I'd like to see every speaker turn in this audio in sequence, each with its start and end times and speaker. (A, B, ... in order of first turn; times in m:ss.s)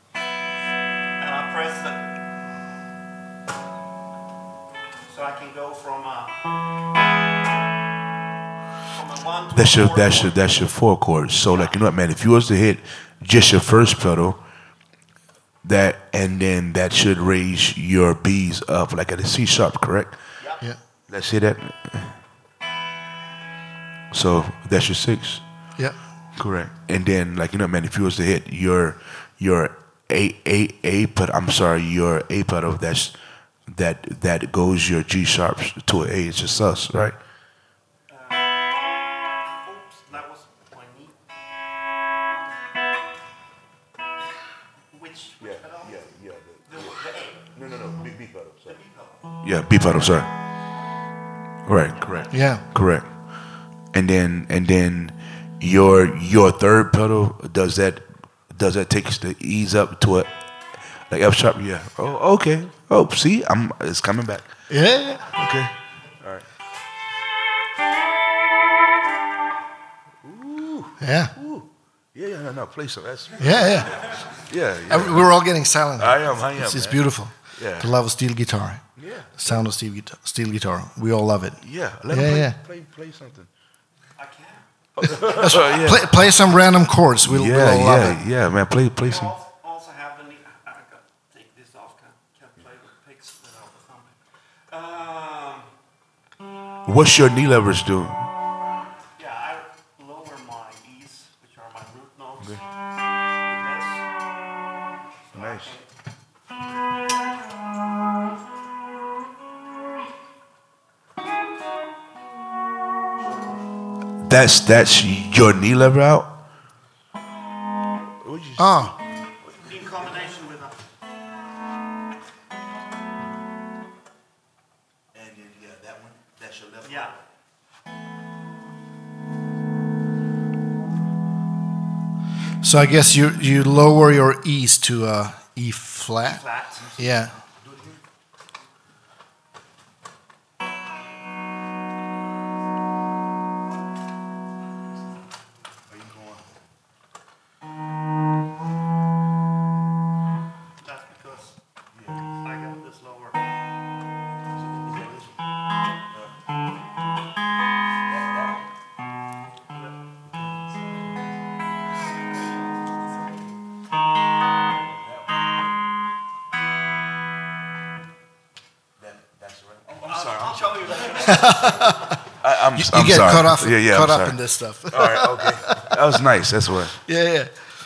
0:01.2-0:02.0 A
0:05.1-0:06.4 A
0:08.9-0:10.4 A
0:09.5-0:14.4 B
0:15.6-0:20.2 B
0:21.1-0:22.2 B
0:24.1-0:25.4 B
0:26.4-0:33.2 B
0:33.7-0:37.2 B
0:38.1-0:38.6 A
0:39.2-0:41.2 A
0:44.9-0:46.0 A
0:45.4-0:48.8 B
0:46.7-0:47.5 A
0:48.6-0:49.2 A
0:49.4-0:50.3 B
0:51.7-0:53.1 B
0:51.9-0:52.6 A
0:52.3-0:52.6 C
0:53.9-1:00.3 B
1:01.1-1:04.5 B
1:04.7-1:05.4 C
1:05.2-1:06.5 B
1:10.2-1:15.3 B
1:11.0-1:11.3 C
1:13.4-1:14.1 C
1:14.9-1:18.8 C
1:16.0-1:17.9 B
1:19.0-1:19.6 B
1:19.4-1:22.6 C
1:21.6-1:23.5 B
1:24.2-1:24.6 A
1:25.0-1:26.2 B
1:25.0-1:28.2 C
1:27.2-1:29.3 B
1:29.0-1:34.2 A
1:34.7-1:35.7 A
1:36.8-1:38.3 B
1:39.2-1:42.6 A
1:43.4-1:44.1 A
1:45.2-1:45.9 A
1:45.3-1:45.7 B
1:54.2-1:56.4 B
1:58.2-1:59.0 B
1:58.6-1:59.0 C
1:59.4-2:00.8 A
2:05.1-2:07.2 B
2:06.8-2:07.2 A
2:12.6-2:16.4 C
2:16.2-2:17.0 A
2:17.0-2:17.4 C
2:17.6-2:17.9 B
2:25.9-2:26.4 B
2:30.8-2:31.6 A
2:32.0-2:32.2 B
2:32.4-2:33.4 A
2:34.6-2:35.4 B
2:38.1-2:38.6 B
2:39.7-2:40.0 A
2:49.0-2:51.6 B
2:50.0-2:52.1 A
2:51.2-2:52.2 C
2:52.4-2:54.4 B
2:52.8-2:56.0 C
2:54.9-2:57.0 B
2:57.0-2:57.5 C